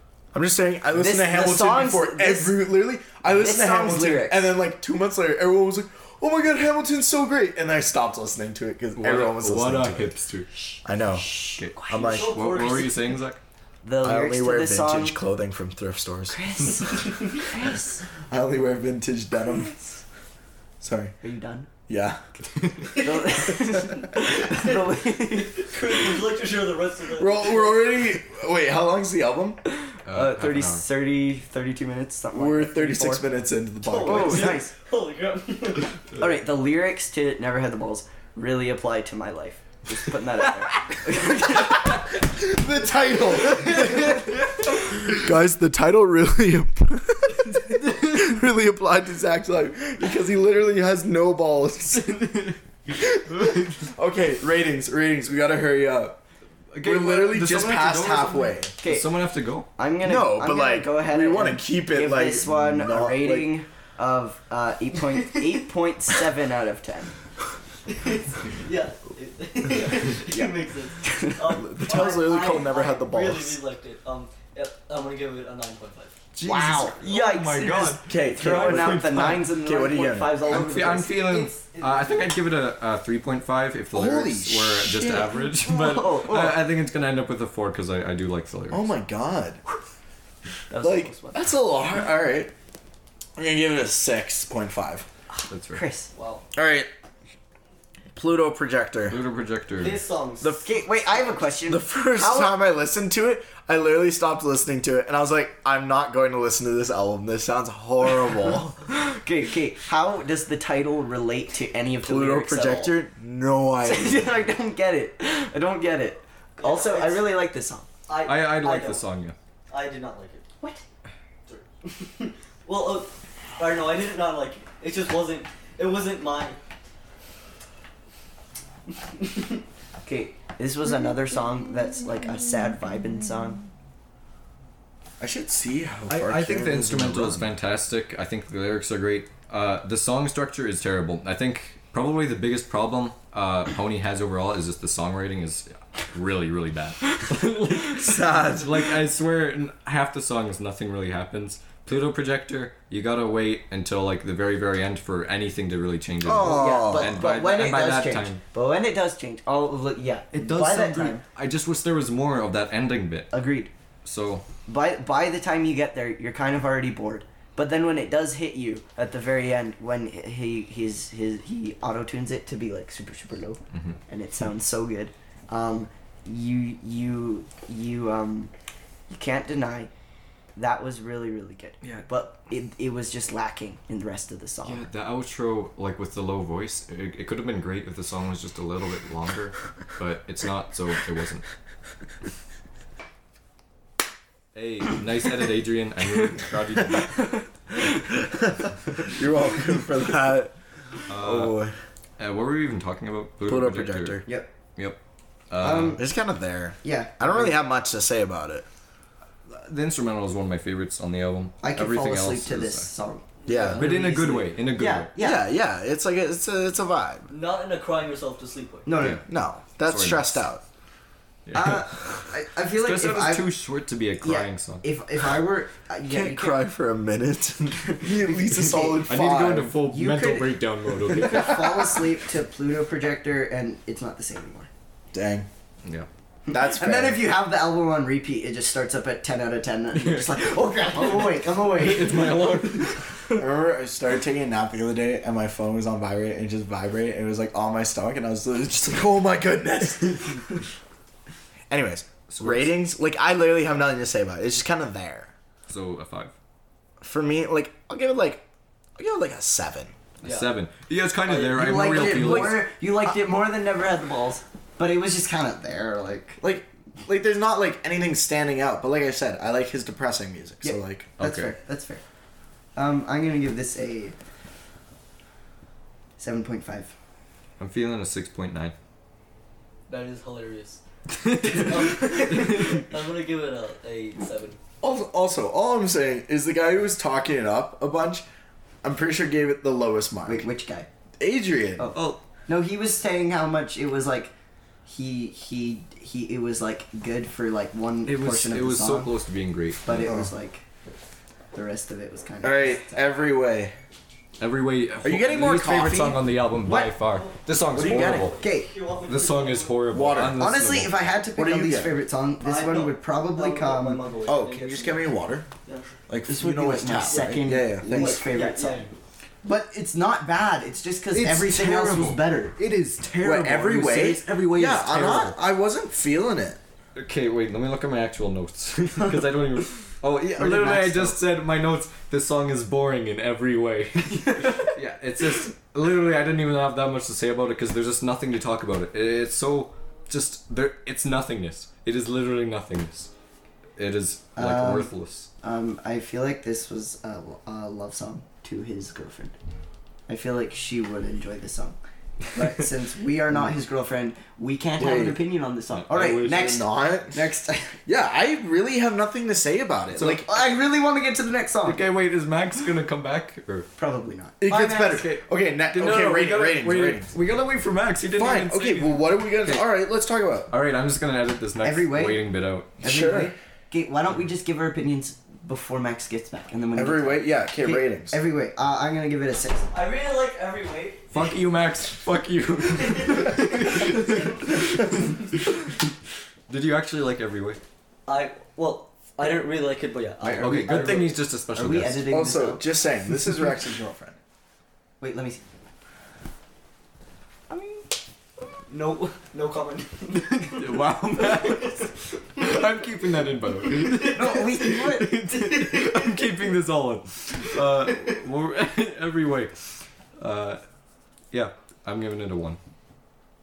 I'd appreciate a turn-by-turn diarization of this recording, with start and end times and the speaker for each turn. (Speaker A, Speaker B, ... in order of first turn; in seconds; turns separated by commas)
Speaker A: 0.3-10.1, Speaker B: 0.9-2.6, Speaker B: 3.2-4.4, Speaker C: 9.0-10.5, Speaker A: 10.8-12.4, Speaker B: 11.1-12.2, Speaker C: 11.6-13.4, Speaker D: 12.0-13.2, Speaker B: 13.8-15.2, Speaker A: 14.0-17.1, Speaker B: 16.3-18.0, Speaker A: 18.3-19.8, Speaker A: 20.8-21.1, Speaker B: 21.2-21.7, Speaker A: 21.9-22.2, Speaker B: 22.9-25.7, Speaker D: 24.1-28.0, Speaker A: 27.1-29.6, Speaker B: 29.7-33.2, Speaker C: 30.1-30.8, Speaker A: 32.3-34.6, Speaker D: 33.8-36.0, Speaker B: 34.0-34.7, Speaker B: 36.2-42.0, Speaker A: 42.3-44.3, Speaker A: 44.9-56.2, Speaker C: 56.7-59.7, Speaker A: 56.8-58.7, Speaker B: 58.8-59.1, Speaker B: 59.8-67.1, Speaker A: 60.0-63.5, Speaker D: 65.2-65.4, Speaker D: 67.9-76.2, Speaker B: 70.3-71.4, Speaker A: 71.5-73.6, Speaker C: 76.3-79.5, Speaker B: 76.4-81.2, Speaker A: 76.5-76.9, Speaker A: 78.0-80.5, Speaker C: 80.5-88.9, Speaker D: 80.5-82.3, Speaker A: 83.9-85.4, Speaker B: 85.6-86.6, Speaker A: 88.7-89.6, Speaker B: 90.7-91.5, Speaker A: 90.8-92.5, Speaker A: 93.4-95.0, Speaker B: 95.3-96.1, Speaker C: 95.5-95.8, Speaker D: 96.1-96.4, Speaker A: 96.5-96.9, Speaker A: 98.1-99.2, Speaker C: 99.1-100.0, Speaker D: 99.8-100.6, Speaker A: 100.4-108.8, Speaker B: 100.6-102.6, Speaker B: 108.8-112.9, Speaker A: 112.0-114.3, Speaker B: 113.8-117.9, Speaker D: 116.6-117.3, Speaker D: 118.1-119.0, Speaker C: 118.2-119.3, Speaker D: 119.7-120.5, Speaker D: 121.5-126.6, Speaker D: 129.2-129.6, Speaker B: 130.0-133.6, Speaker A: 135.2-137.5, Speaker C: 136.1-158.4, Speaker A: 147.9-149.0, Speaker A: 156.2-157.2, Speaker B: 156.4-161.2, Speaker D: 160.3-161.2, Speaker C: 161.3-163.3, Speaker B: 163.3-163.7, Speaker C: 164.0-164.4, Speaker B: 164.7-178.5, Speaker B: 179.1-179.9, Speaker B: 180.6-184.9, Speaker C: 181.8-182.1, Speaker C: 184.6-191.4, Speaker C: 194.5-197.3, Speaker A: 198.3-200.5, Speaker C: 201.1-201.6, Speaker A: 201.1-201.7, Speaker C: 202.2-204.2, Speaker A: 203.5-204.3, Speaker C: 205.5-206.0, Speaker B: 205.6-206.0, Speaker A: 205.9-208.7, Speaker B: 206.8-207.5, Speaker C: 209.5-212.9, Speaker B: 211.6-215.4, Speaker D: 213.4-213.8, Speaker A: 213.4-213.8, Speaker C: 213.7-215.1, Speaker A: 215.2-217.3, Speaker D: 217.3-218.9, Speaker B: 218.8-219.2, Speaker C: 219.0-219.2, Speaker A: 219.2-220.6, Speaker C: 219.8-220.4, Speaker C: 221.4-224.8, Speaker B: 221.5-223.5, Speaker B: 224.2-226.6, Speaker A: 226.1-229.7, Speaker B: 227.9-229.2, Speaker C: 229.0-231.9, Speaker B: 229.8-234.7, Speaker A: 235.1-235.5, Speaker B: 236.5-242.6, Speaker A: 236.5-237.3, Speaker C: 239.9-243.2, Speaker A: 243.3-250.5, Speaker A: 251.7-255.3, Speaker C: 252.3-252.7, Speaker C: 255.7-256.3, Speaker A: 257.0-258.4, Speaker A: 259.0-259.9, Speaker C: 260.2-262.6, Speaker D: 260.2-260.5, Speaker B: 261.3-266.4, Speaker A: 261.9-262.6, Speaker A: 266.4-271.1, Speaker B: 270.6-272.0, Speaker C: 271.2-271.5, Speaker B: 272.8-274.1, Speaker B: 276.2-276.9, Speaker C: 277.6-278.7, Speaker D: 279.9-280.8, Speaker C: 281.3-282.7, Speaker D: 281.4-284.6, Speaker A: 284.8-288.2, Speaker A: 288.8-290.5, Speaker B: 290.2-290.9, Speaker A: 291.2-291.9, Speaker B: 291.8-294.3, Speaker B: 294.9-299.1, Speaker C: 298.1-300.0, Speaker B: 299.8-300.6, Speaker A: 300.0-300.3, Speaker B: 301.5-303.0, Speaker A: 302.4-303.7, Speaker C: 304.4-308.4, Speaker A: 305.0-306.2, Speaker B: 306.6-306.9, Speaker D: 307.0-309.8, Speaker A: 307.7-308.3, Speaker B: 308.4-308.7, Speaker C: 309.1-310.9, Speaker A: 309.9-310.4, Speaker B: 310.3-314.0, Speaker A: 311.4-311.9, Speaker D: 312.4-315.1, Speaker A: 314.2-315.5, Speaker D: 315.6-315.9, Speaker A: 316.1-318.2, Speaker B: 316.3-318.8, Speaker D: 317.0-319.0, Speaker B: 319.4-325.3, Speaker C: 321.1-322.2, Speaker C: 322.7-323.0, Speaker A: 323.2-326.6, Speaker C: 324.5-325.3, Speaker C: 326.9-343.1, Speaker B: 330.4-331.2, Speaker C: 343.8-345.3, Speaker B: 344.4-344.9, Speaker B: 345.4-349.3, Speaker B: 350.1-351.8, Speaker B: 352.3-357.8, Speaker A: 354.8-355.2, Speaker C: 355.7-356.5, Speaker A: 356.1-357.2, Speaker A: 357.9-360.3, Speaker C: 359.9-360.2, Speaker B: 360.2-361.8, Speaker C: 361.6-363.7, Speaker B: 363.8-364.4, Speaker A: 364.4-367.1, Speaker C: 364.5-369.6, Speaker A: 368.1-370.5, Speaker C: 370.5-372.7, Speaker B: 371.6-372.2, Speaker B: 372.8-379.7, Speaker A: 372.8-373.3, Speaker A: 376.7-378.2, Speaker D: 379.7-381.4, Speaker C: 381.1-385.7, Speaker D: 382.7-385.1, Speaker C: 386.5-387.6, Speaker D: 388.1-391.2, Speaker A: 390.2-390.9, Speaker C: 390.3-392.1, Speaker B: 391.5-392.6, Speaker A: 392.1-394.2, Speaker B: 395.0-395.4, Speaker B: 397.5-397.9, Speaker D: 398.7-402.6, Speaker C: 400.5-409.5, Speaker D: 403.6-406.3, Speaker B: 404.1-405.1, Speaker D: 407.6-408.2, Speaker C: 410.2-410.6, Speaker C: 411.3-412.6